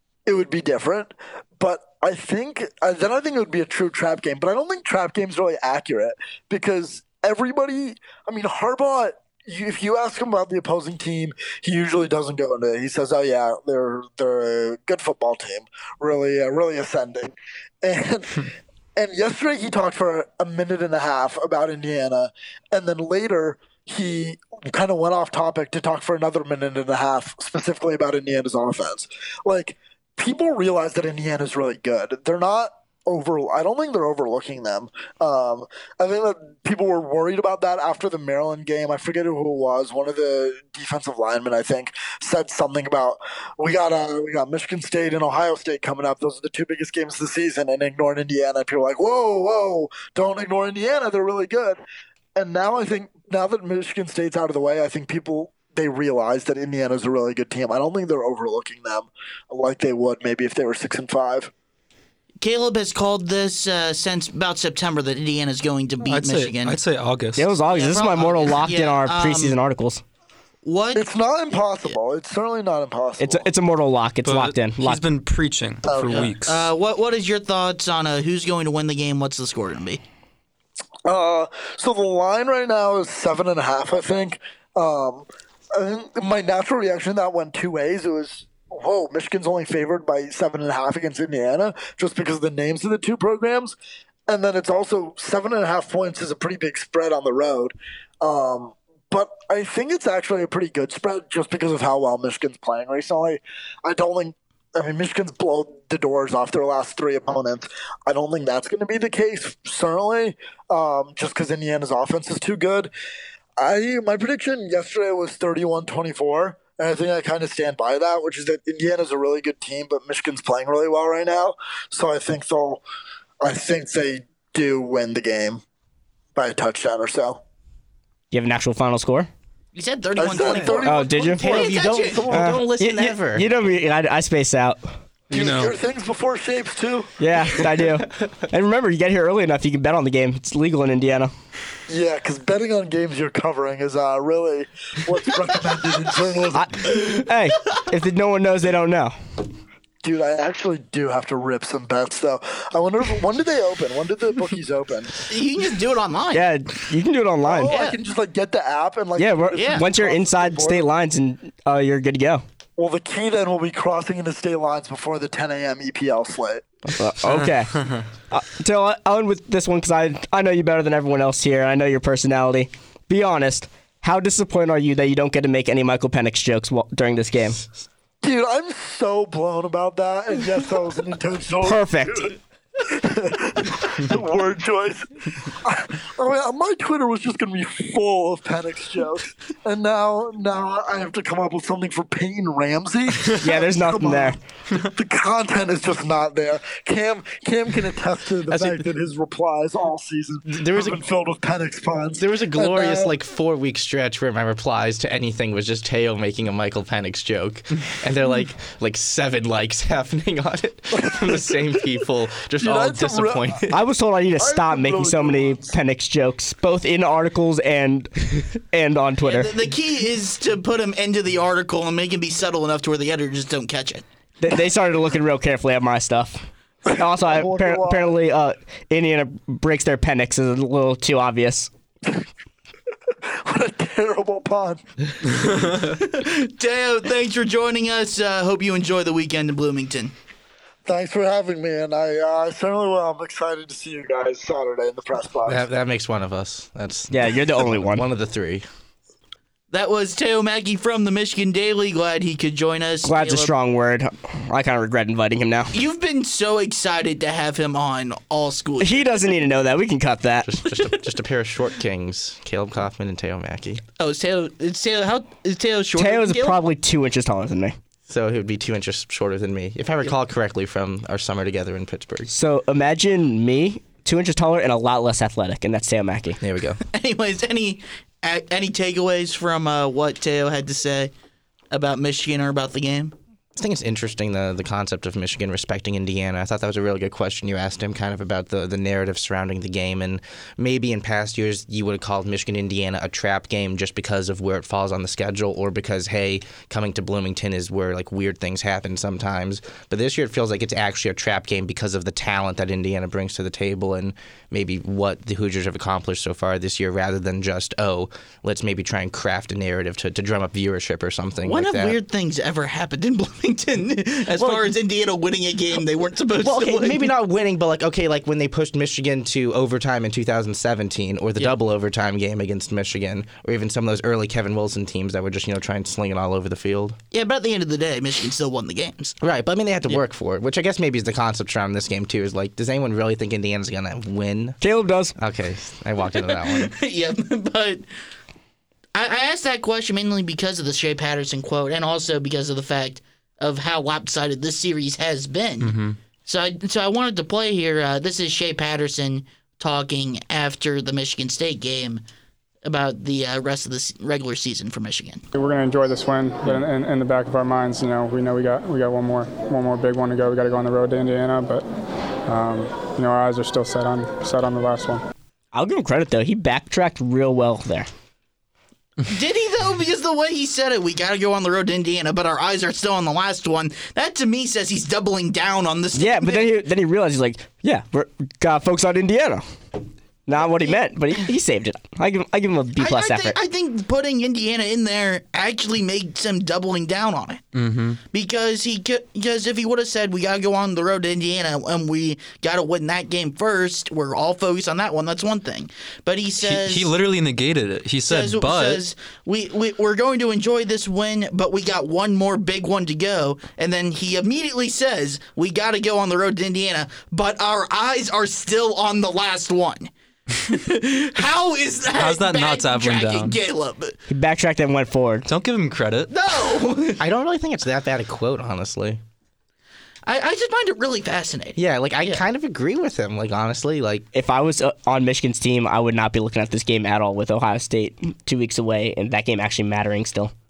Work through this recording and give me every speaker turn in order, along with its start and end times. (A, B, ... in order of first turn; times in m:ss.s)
0:00.3-0:51.8 A
0:52.4-1:01.5 A
1:02.4-1:06.8 B
1:06.0-1:07.5 C
1:07.4-1:10.0 D
1:07.7-1:09.6 B
1:10.6-1:11.0 B
1:11.0-1:13.5 A
1:13.2-1:15.1 D
1:14.2-1:16.7 C
1:15.9-1:16.3 A
1:16.0-1:20.0 B
1:21.1-1:33.8 A
1:34.3-1:52.9 A
1:53.6-2:02.8 A
2:03.4-2:05.6 A
2:06.4-2:07.4 A
2:08.3-2:09.3 D
2:09.8-2:12.3 B
2:10.2-2:12.6 A
2:10.4-2:10.8 E
2:10.8-2:11.4 D
2:11.4-2:13.5 E
2:12.3-2:15.0 D
2:15.3-2:15.8 C
2:15.3-2:17.6 A
2:17.2-2:21.3 D
2:21.9-2:26.7 A
2:26.5-2:29.2 D
2:30.0-2:35.3 A
2:35.3-2:36.5 B
2:36.3-2:37.8 D
2:37.5-2:40.9 A
2:37.7-2:38.0 B
2:39.2-2:42.4 D
2:39.5-2:39.9 B
2:42.8-2:46.7 A
2:46.9-2:57.6 D
2:58.2-3:23.1 A
3:01.6-3:02.3 D
3:13.3-3:14.4 D
3:18.5-3:18.9 E
3:20.5-3:21.0 E
3:22.2-3:33.8 E
3:31.0-3:31.7 A
3:32.6-3:33.6 A
3:33.7-3:39.5 D
3:34.4-3:35.7 A
3:39.2-3:44.0 B
3:44.4-3:51.7 D
3:47.0-3:48.1 A
3:53.4-3:54.8 A
3:55.7-4:00.1 B
4:00.9-4:05.6 A
4:05.5-4:08.6 E
4:07.1-4:08.0 D
4:09.7-4:13.5 B
4:13.0-4:15.7 D
4:15.7-4:19.0 B
4:18.8-4:20.5 D
4:20.5-4:23.8 E
4:20.6-4:21.0 B
4:24.0-4:26.6 B
4:26.0-4:27.8 D
4:28.1-4:32.3 E
4:32.3-4:36.4 D
4:36.4-4:36.8 E
4:36.9-4:41.1 B
4:41.7-4:43.2 B
4:43.6-5:12.0 E
5:11.4-5:17.1 B
5:16.4-5:27.0 E
5:27.1-5:29.2 B
5:29.2-5:34.6 E
5:34.6-5:35.2 D
5:35.2-5:36.7 E
5:36.2-5:37.8 B
5:39.0-5:52.0 B
5:45.6-5:46.0 C
5:52.6-5:55.2 B
5:55.3-6:01.7 F
6:02.3-6:05.0 F
6:05.5-6:07.9 D
6:09.1-6:16.6 B
6:16.0-6:19.4 D
6:20.3-6:23.4 D
6:22.8-6:27.4 B
6:27.5-6:28.0 C
6:28.1-6:36.9 B
6:36.4-6:38.8 C
6:38.0-6:54.0 B
6:52.0-6:53.4 C
6:54.1-6:55.3 D
6:55.3-6:56.1 C
6:56.1-6:57.0 B
6:57.0-6:59.0 E
7:00.1-7:02.2 B
7:01.6-7:04.1 E
7:04.1-7:10.3 D